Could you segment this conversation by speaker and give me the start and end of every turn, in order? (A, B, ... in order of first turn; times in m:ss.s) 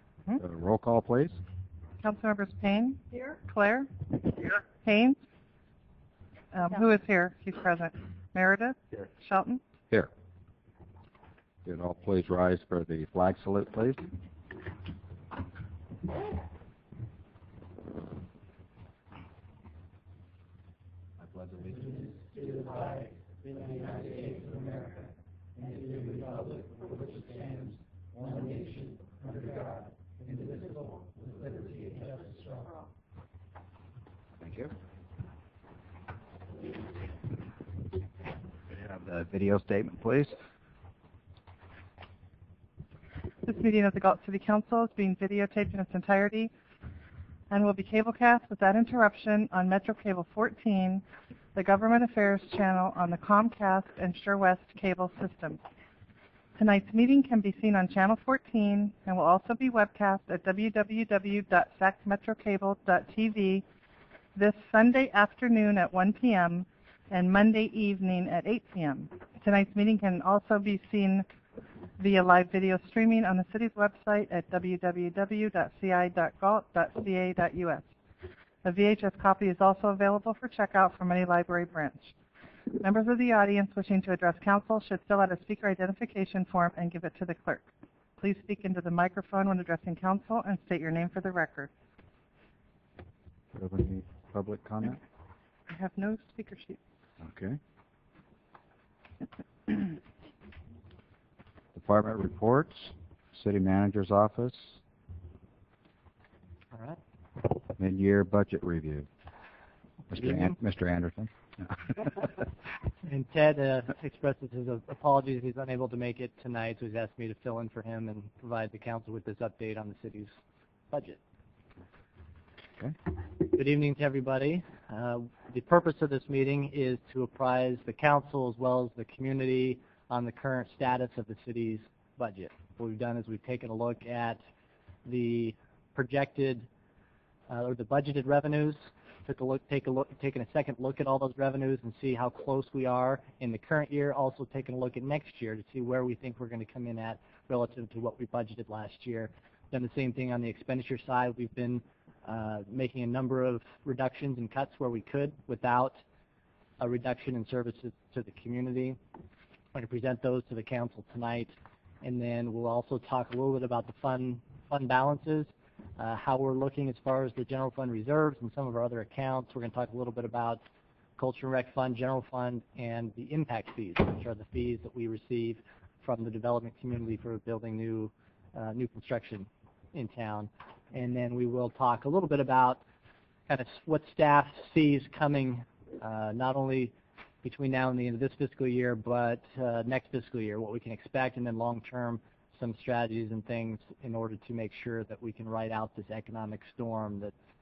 0:00.4-0:01.4 A
0:02.0-0:05.2 B
0:06.5-0:09.6 B
0:11.6-0:14.1 A
0:21.2-0:24.8 A
0:26.0-0:26.3 A
0:27.0-0:27.7 A
0:28.4-0:28.8 A
0:29.4-0:29.6 A
0:30.3-0:30.6 A
0:31.4-0:32.4 A
0:34.4-0:34.7 A
0:38.7-0:40.3 A
0:43.4-0:46.5 B
0:47.5-0:55.6 B
0:56.6-1:03.6 B
1:04.4-1:11.3 B
1:12.0-1:17.9 B
1:18.6-1:22.1 B
1:22.8-1:31.7 B
1:33.6-1:35.0 A
1:35.7-1:36.8 B
1:37.2-1:37.6 A
1:41.8-1:44.8 A
1:46.7-1:47.0 C
1:47.8-1:49.1 A
1:50.1-1:52.1 A
1:53.1-2:00.4 C
2:00.9-2:01.2 C
2:03.4-2:14.4 C
2:15.1-2:16.7 C
2:17.5-2:36.0 C
2:36.8-2:39.0 C
2:39.7-2:50.6 C
2:51.2-3:02.8 C
3:03.5-3:17.3 C